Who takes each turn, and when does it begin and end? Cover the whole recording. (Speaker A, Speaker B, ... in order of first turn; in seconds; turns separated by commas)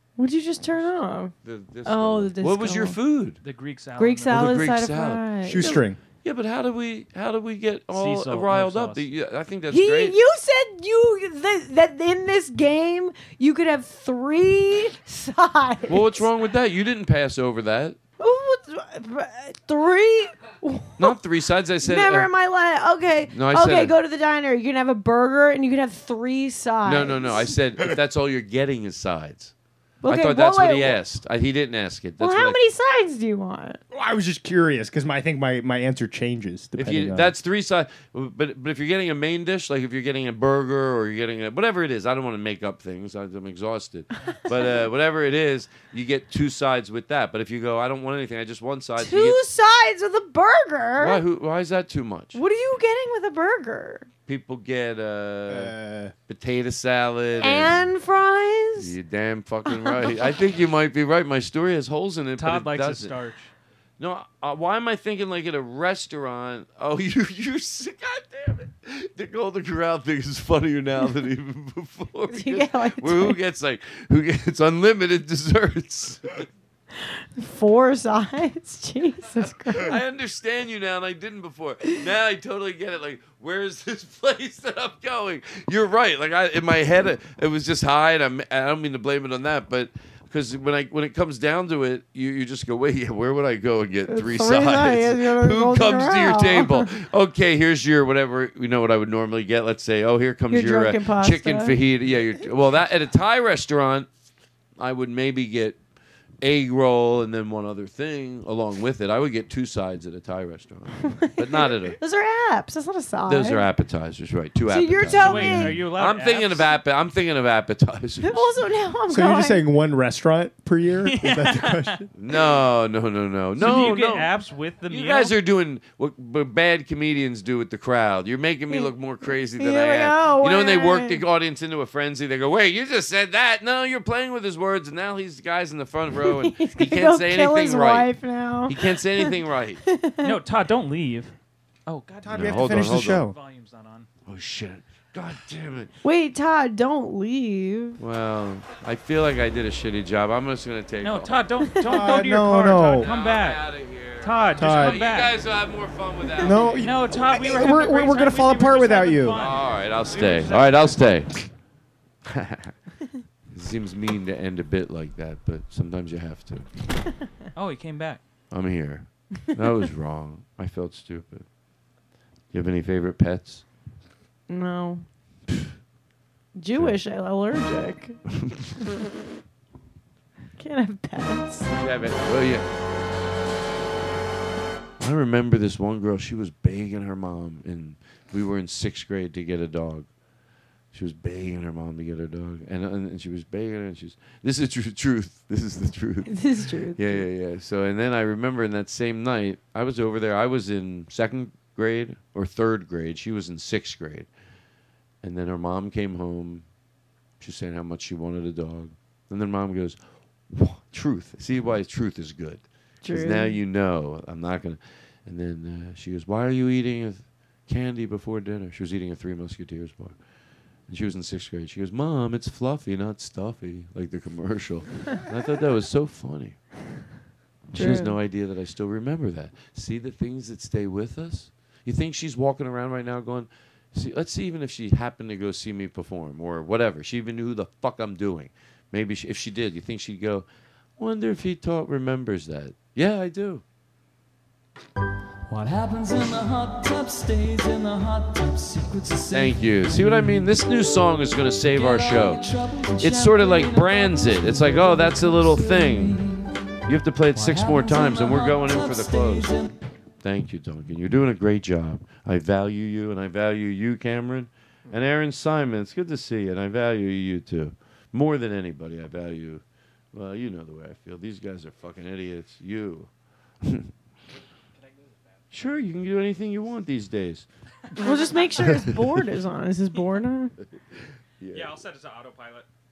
Speaker A: 0.2-1.3, Speaker B: 1.4-3.4, Speaker A: 1.9-3.0, Speaker C: 3.4-4.6, Speaker A: 4.0-5.8, Speaker B: 4.3-10.2, Speaker D: 5.4-6.0, Speaker C: 7.9-9.1, Speaker A: 9.7-16.2, Speaker B: 15.9-18.0, Speaker A: 18.2-21.1, Speaker B: 21.0-22.3, Speaker A: 21.8-27.2, Speaker B: 23.3-23.9, Speaker B: 26.8-29.5, Speaker A: 30.0-31.0, Speaker B: 30.1-32.6, Speaker A: 32.2-33.8, Speaker D: 33.9-37.4, Speaker B: 36.8-49.4, Speaker A: 49.0-51.2, Speaker B: 51.0-52.4, Speaker A: 52.4-54.1, Speaker B: 54.3-57.9, Speaker D: 55.5-56.1, Speaker A: 57.4-58.9, Speaker B: 58.8-63.2, Speaker C: 62.4-63.5, Speaker B: 64.0-76.5, Speaker A: 72.3-73.4, Speaker A: 77.4-80.0, Speaker B: 79.8-104.1, Speaker A: 94.1-96.9, Speaker A: 100.5-101.8, Speaker B: 104.8-105.8, Speaker B: 106.4-112.0, Speaker A: 112.0-113.7, Speaker B: 113.3-118.5, Speaker A: 114.7-115.8, Speaker C: 115.2-116.7, Speaker A: 118.2-119.6, Speaker D: 119.1-122.1, Speaker C: 121.0-122.0, Speaker B: 122.2-124.3, Speaker C: 123.6-125.3, Speaker B: 124.9-138.1, Speaker A: 129.6-131.2, Speaker A: 136.2-139.3, Speaker B: 138.7-139.8, Speaker A: 139.9-140.3, Speaker C: 140.2-141.3, Speaker C: 141.9-144.1, Speaker D: 142.2-143.4, Speaker B: 142.3-143.3, Speaker B: 144.3-145.9, Speaker A: 146.0-148.0, Speaker B: 148.0-151.4, Speaker C: 151.0-155.3, Speaker D: 151.9-153.1, Speaker B: 153.0-157.4, Speaker D: 154.6-155.1, Speaker D: 156.4-159.5, Speaker C: 156.8-161.0, Speaker B: 159.3-161.5, Speaker B: 162.3-162.8, Speaker B: 163.5-166.7, Speaker C: 167.6-168.2, Speaker B: 168.5-171.4, Speaker B: 172.5-173.7, Speaker A: 174.5-175.0, Speaker A: 176.6-178.2, Speaker B: 178.4-178.8, Speaker A: 180.6-181.7, Speaker B: 181.7-182.7, Speaker B: 185.0-190.1, Speaker B: 190.9-204.3, Speaker A: 196.3-197.1, Speaker B: 205.2-206.7, Speaker B: 207.4-220.2, Speaker A: 213.0-213.6, Speaker B: 220.8-226.8, Speaker B: 227.7-240.5, Speaker A: 227.8-228.1, Speaker B: 241.0-243.6, Speaker E: 245.5-250.5, Speaker B: 249.3-256.2, Speaker E: 251.7-256.8, Speaker B: 256.9-259.6, Speaker E: 257.3-259.7, Speaker B: 260.2-273.9, Speaker C: 274.8-275.2, Speaker B: 275.5-277.5, Speaker A: 278.0-280.5, Speaker B: 281.4-281.7, Speaker C: 281.5-282.7